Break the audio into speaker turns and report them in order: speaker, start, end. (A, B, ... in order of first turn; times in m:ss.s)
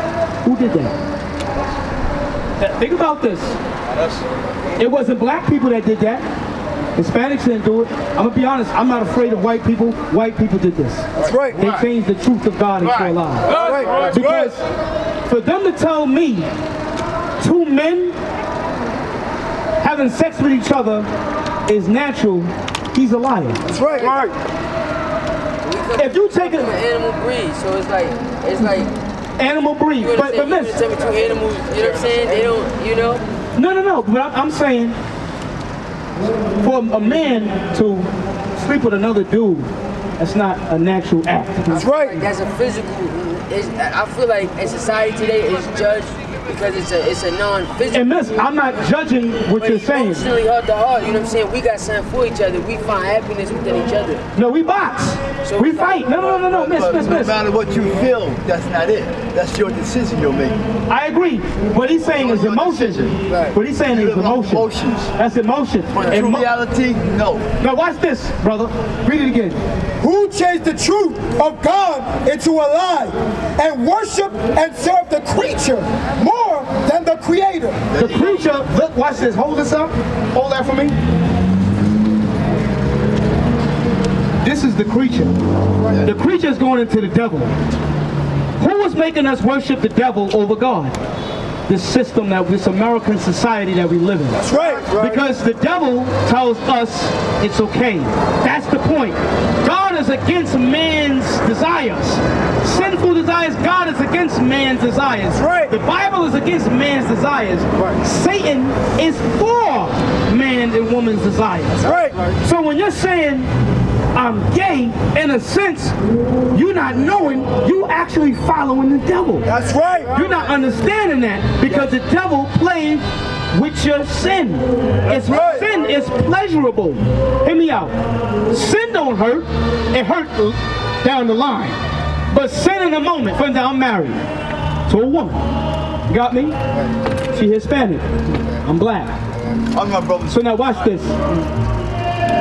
0:00.4-0:00.9 A
0:02.6-0:03.6 A
0:03.9-0:04.2 B
0:04.8-0:06.2 A
0:07.0-0:13.6 A
0:11.2-0:11.9 B
0:11.2-0:11.8 C
0:12.8-0:14.3 B
0:13.5-0:14.5 C
0:14.1-0:14.6 A
0:15.3-0:16.5 A
0:17.4-0:18.2 A
0:19.8-0:21.1 A
0:21.7-0:23.6 A
0:23.7-0:24.2 B
0:23.7-0:24.3 C
0:25.6-0:28.9 D
0:26.0-0:26.7 A
0:29.4-0:30.8 A
0:30.0-0:33.2 D
0:31.8-0:32.3 B
0:33.6-0:35.0 A
0:36.6-0:41.7 A
0:41.7-0:42.2 C
0:41.7-0:48.3 D
0:47.9-0:50.3 A
0:49.5-0:54.2 D
0:54.4-0:57.4 A
0:55.4-0:56.1 D
0:56.2-1:00.6 B
1:00.9-1:06.5 A
1:02.1-1:05.1 B
1:05.9-1:07.5 B
1:07.6-1:09.6 A
1:10.0-1:17.8 C
1:17.9-1:18.4 B
1:17.9-1:20.9 A
1:24.4-1:25.3 A
1:26.0-1:27.5 A
1:28.6-1:30.9 A
1:31.7-1:34.4 A
1:34.4-1:35.3 B
1:34.4-1:34.9 C
1:35.0-1:51.8 A
1:45.3-1:45.8 C
1:51.8-1:52.4 B
1:51.8-1:52.2 C
1:52.4-1:53.5 A
1:54.1-1:55.9 A
1:56.5-1:59.5 A
1:59.5-2:00.1 C
1:59.5-2:00.4 B
2:00.1-2:07.9 A
2:05.0-2:05.8 B
2:05.1-2:05.7 C
2:08.5-2:11.8 A
2:12.3-2:14.2 A
2:14.9-2:15.4 A
2:16.1-2:16.6 A
2:17.3-2:19.1 A
2:19.7-2:20.5 B
2:20.3-2:21.2 A